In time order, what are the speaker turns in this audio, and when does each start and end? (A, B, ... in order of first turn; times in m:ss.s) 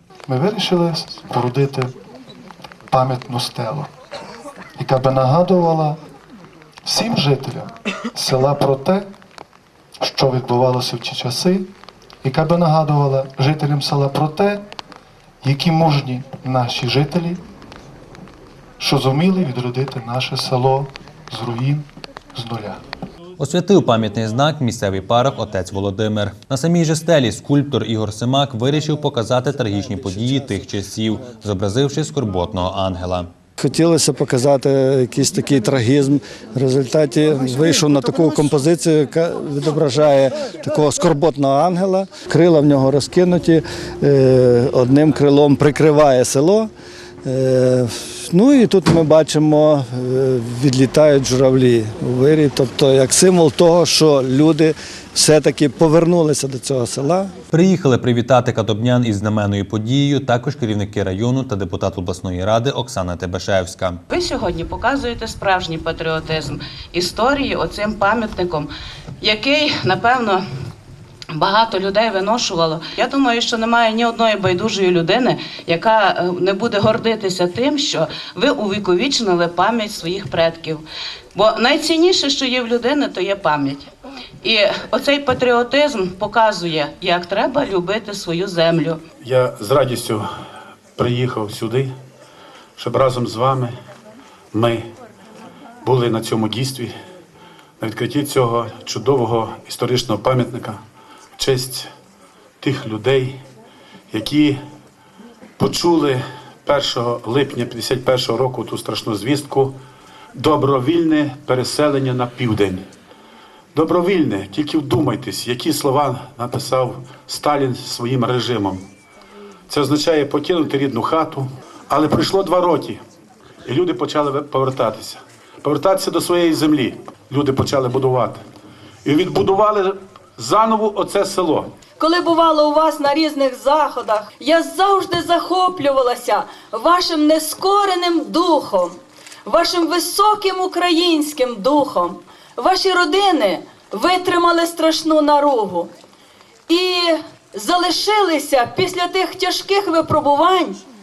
0:00.3-0:01.9 A
0:02.9-0:03.9 A
0:04.8-0:06.0 A
0:06.8-0:09.1 A
0:10.0-0:11.7 A
0:12.2-0:14.6 A
0:15.4-0:17.4 A
0:18.8-0:22.8 A
0:23.4-0:33.3 B
0:33.6-0:46.7 C
0:47.2-0:57.3 C
0:57.5-1:04.0 B
1:04.1-1:08.7 D
1:09.2-1:10.4 D
1:11.3-1:20.8 D
1:21.3-1:23.9 D
1:24.4-1:29.0 D
1:29.2-1:30.3 E
1:31.0-1:31.9 E
1:32.8-1:33.7 E
1:34.5-1:34.9 E
1:35.8-1:37.0 E
1:37.8-1:40.8 E
1:41.4-1:41.9 E
1:42.6-1:43.4 E
1:44.1-1:44.6 E
1:45.6-1:49.8 E
1:50.4-1:52.8 E
1:53.7-1:58.8 E
1:59.7-2:03.0 E
2:03.6-2:08.4 E
2:09.0-2:11.7 E
2:12.0-2:25.9 F
2:26.7-2:30.8 F